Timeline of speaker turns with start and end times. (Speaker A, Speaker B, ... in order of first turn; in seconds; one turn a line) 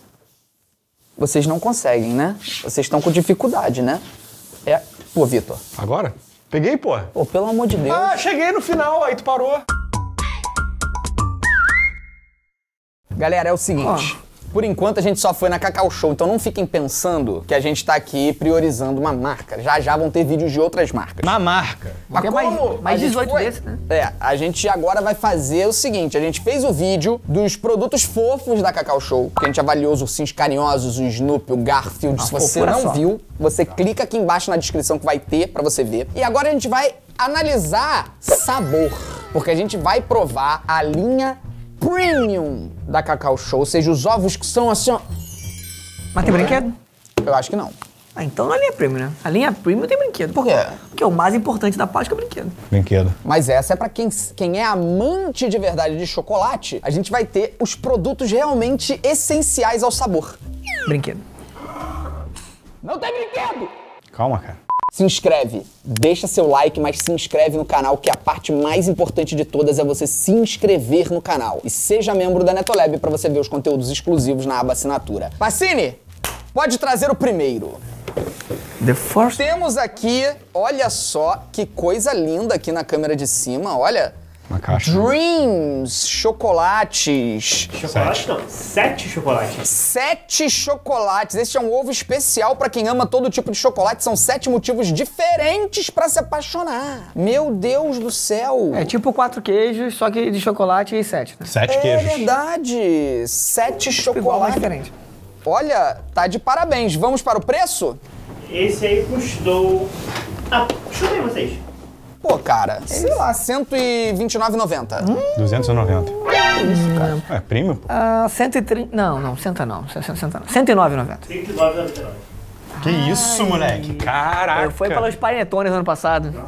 Speaker A: 1.2-4.0
Speaker A: 4.6-5.6
Speaker B: 5.8-7.1
Speaker A: 7.1-8.1
Speaker B: 7.9-9.6
Speaker A: 13.2-21.3
Speaker C: 13.8-14.1
Speaker B: 21.2-22.0
Speaker C: 22.1-23.8
Speaker A: 22.1-45.0
Speaker C: 32.2-33.0
Speaker C: 46.1-46.7
Speaker A: 47.2-47.7
Speaker C: 48.1-50.4
Speaker A: 50.3-50.8
Speaker C: 50.9-52.5
Speaker B: 52.7-53.1
Speaker A: 53.2-60.4
Speaker C: 60.8-61.2
Speaker A: 62.8-63.7
Speaker B: 64.1-64.6
Speaker A: 64.9-76.0
Speaker A: 76.5-77.8
Speaker C: 78.8-79.4
Speaker A: 79.3-84.1
Speaker B: 84.5-85.1
Speaker A: 84.7-87.7
Speaker D: 87.7-89.7
Speaker B: 87.8-88.2
Speaker A: 89.6-98.9
Speaker C: 98.7-101.5
Speaker B: 101.4-102.3
Speaker A: 101.7-104.6
Speaker C: 104.1-104.9
Speaker A: 105.4-108.0
Speaker D: 108.5-109.9
Speaker D: 110.5-111.6
Speaker A: 112.2-115.1
Speaker C: 112.9-113.2
Speaker C: 115.0-115.4
Speaker B: 115.3-116.1
Speaker A: 116.5-117.1
Speaker C: 116.5-117.2
Speaker B: 117.3-117.9
Speaker C: 117.9-121.2
Speaker D: 121.3-122.2
Speaker C: 122.8-126.4
Speaker B: 122.8-125.1